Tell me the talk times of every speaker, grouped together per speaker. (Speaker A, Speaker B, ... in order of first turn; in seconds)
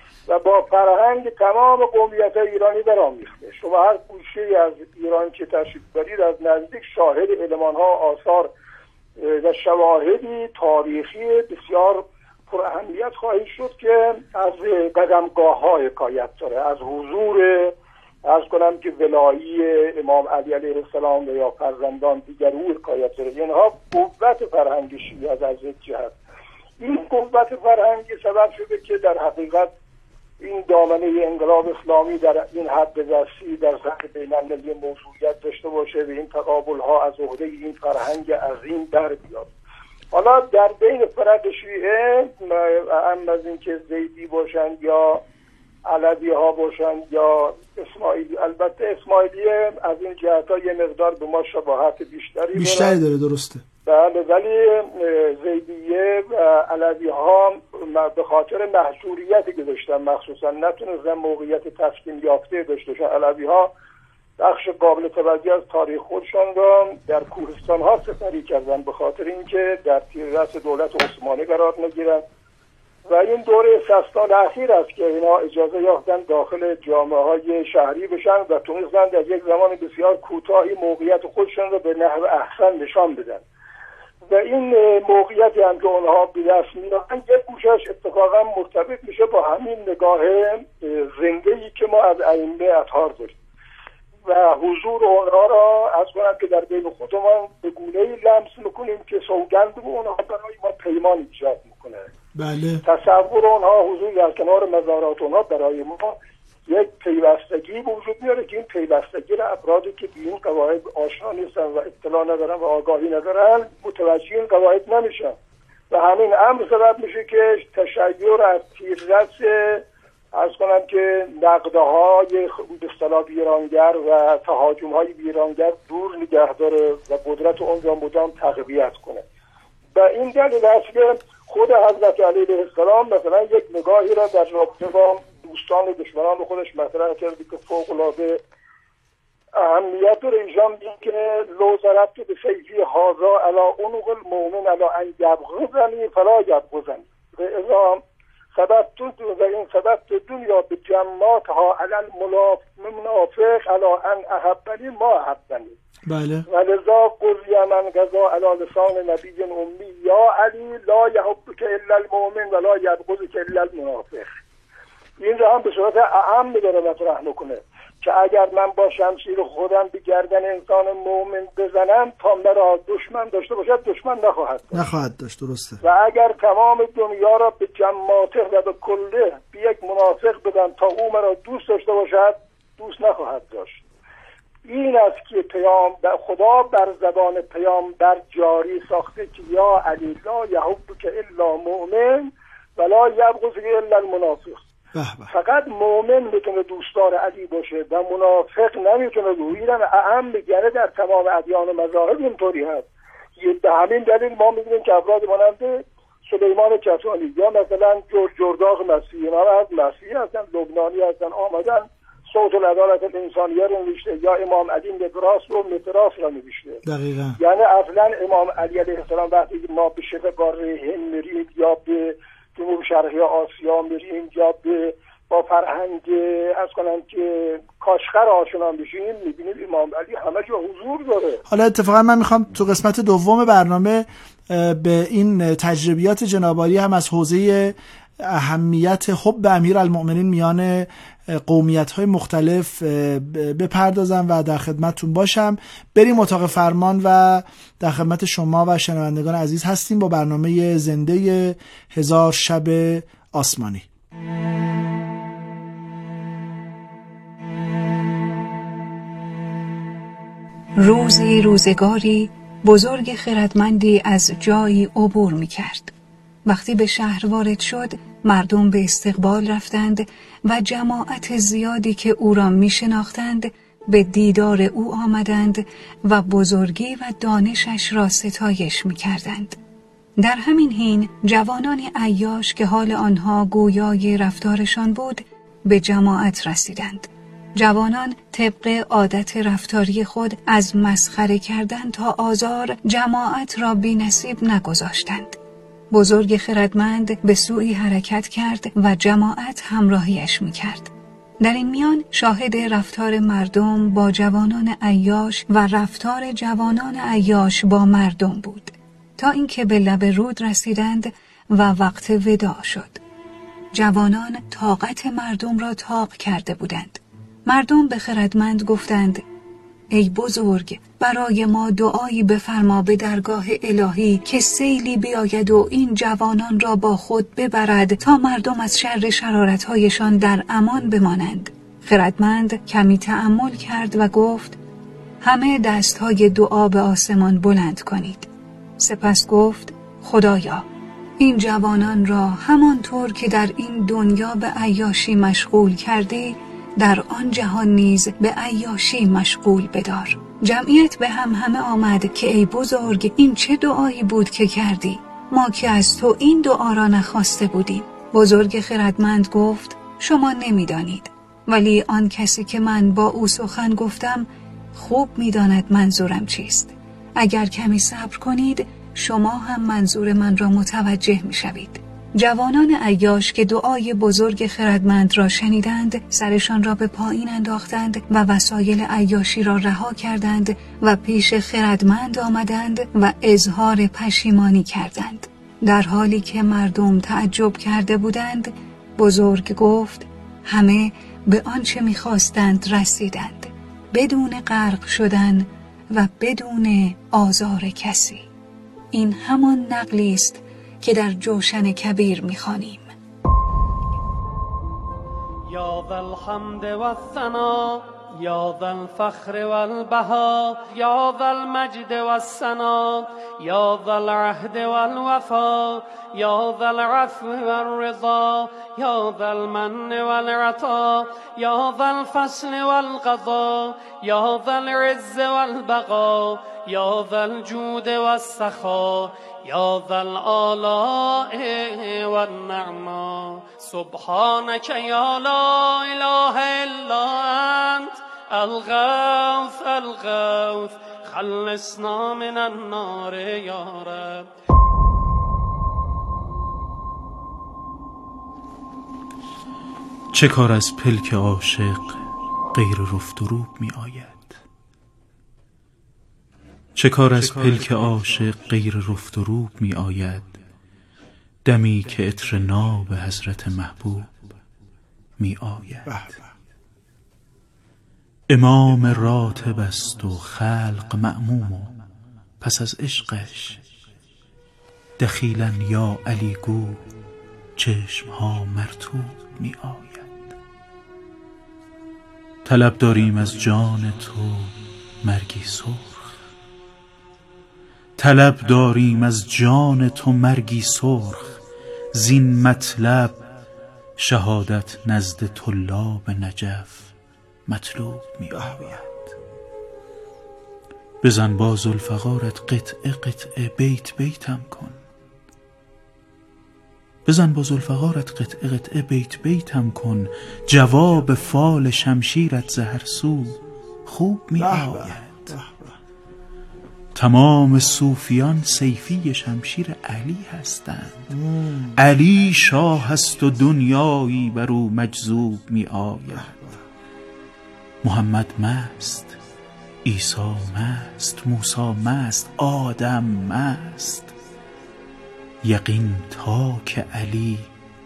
Speaker A: 0.3-8.5, 9.2-17.7, 18.2-26.1, 26.8-29.7, 30.4-39.5, 40.1-45.2, 45.8-52.9, 53.8-63.7, 64.4-72.2, 73.0-83.4, 84.3-93.3, 94.2-102.1, 102.8-106.1, 106.7-115.3, 115.9-129.2, 129.9-138.4, 139.6-148.0, 148.5-155.7, 156.5-164.3, 165.2-174.8, 175.8-183.8, 184.6-194.6, 195.3-202.8, 203.4-216.8, 217.4-231.4
Speaker B: 52.5-53.6, 102.3-102.8, 156.1-156.5, 174.7-175.8, 194.9-195.3, 216.8-217.4, 231.5-253.9, 465.9-466.2, 498.3-498.8, 514.4-515.7, 521.1-521.8
Speaker C: 260.8-265.9, 266.4-279.6, 280.2-295.4, 295.9-313.0, 313.7-319.2, 319.9-334.6, 335.2-338.3, 338.8-340.6, 341.2-398.2, 398.9-402.9
Speaker D: 405.5-444.3
Speaker E: 450.1-452.0, 452.5-454.4, 456.7-460.4, 461.4-464.2, 465.2-466.1, 468.3-471.7, 472.4-473.6, 475.0-476.8, 477.6-480.2, 482.4-486.2, 488.0-491.3, 491.9-493.2, 494.0-496.9, 497.5-499.1, 501.0-504.8, 507.1-515.4, 516.9-521.1, 521.7-526.5, 527.8-529.1, 529.8-534.1, 535.4-537.5